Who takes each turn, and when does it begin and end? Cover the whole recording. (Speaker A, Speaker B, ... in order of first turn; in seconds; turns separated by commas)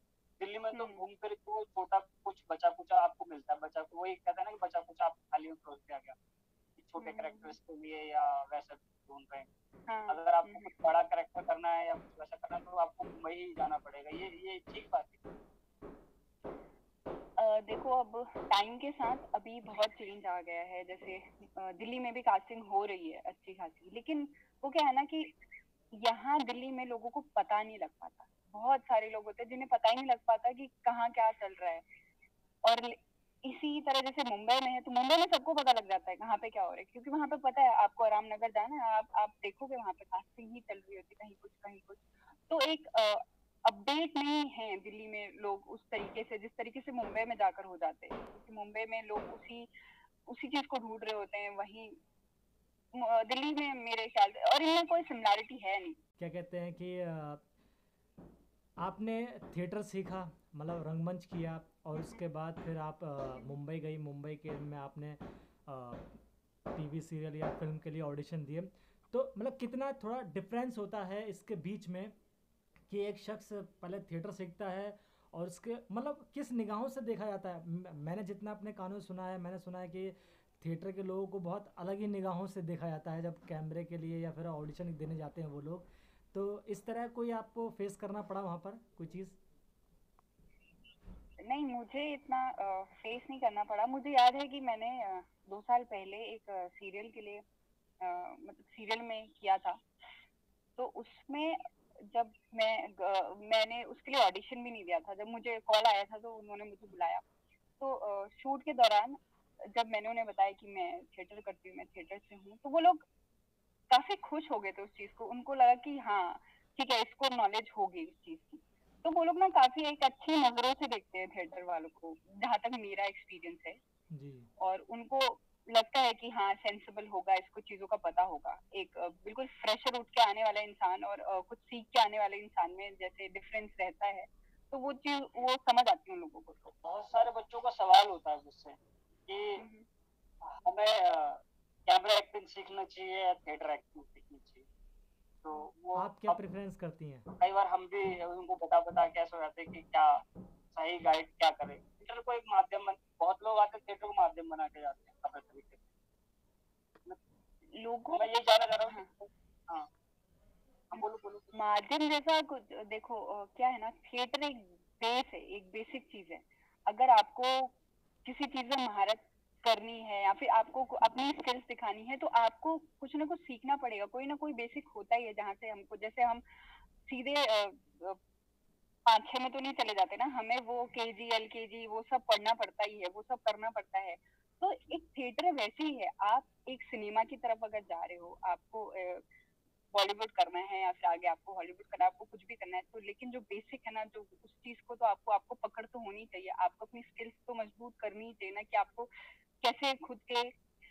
Speaker A: 0.4-6.2, Speaker B: 0.7-1.0, Speaker A: 6.8-9.5, Speaker B: 7.0-7.5, Speaker B: 9.9-10.7, Speaker A: 10.1-15.2, Speaker B: 17.4-25.3, Speaker B: 25.9-31.8, Speaker B: 32.6-49.7, Speaker B: 50.2-52.0, Speaker B: 52.9-56.0, Speaker C: 56.2-57.4, Speaker C: 58.8-66.2, Speaker B: 61.9-62.2, Speaker C: 66.7-72.1, Speaker C: 72.9-89.4, Speaker B: 91.4-97.4, Speaker B: 98.0-99.8, Speaker B: 100.8-107.2, Speaker B: 107.8-113.0, Speaker B: 113.9-123.8, Speaker C: 124.1-124.5, Speaker B: 124.6-136.8, Speaker A: 136.8-138.8, Speaker A: 139.3-139.6, Speaker B: 139.6-139.9, Speaker A: 140.4-144.7, Speaker A: 145.4-146.4, Speaker C: 145.9-147.3, Speaker A: 147.4-150.2, Speaker A: 150.7-155.9, Speaker B: 157.8-158.2, Speaker A: 158.1-159.9, Speaker A: 160.9-161.5, Speaker B: 161.5-167.7, Speaker B: 168.2-176.4, Speaker B: 177.1-178.2, Speaker B: 179.1-189.2, Speaker B: 189.9-200.5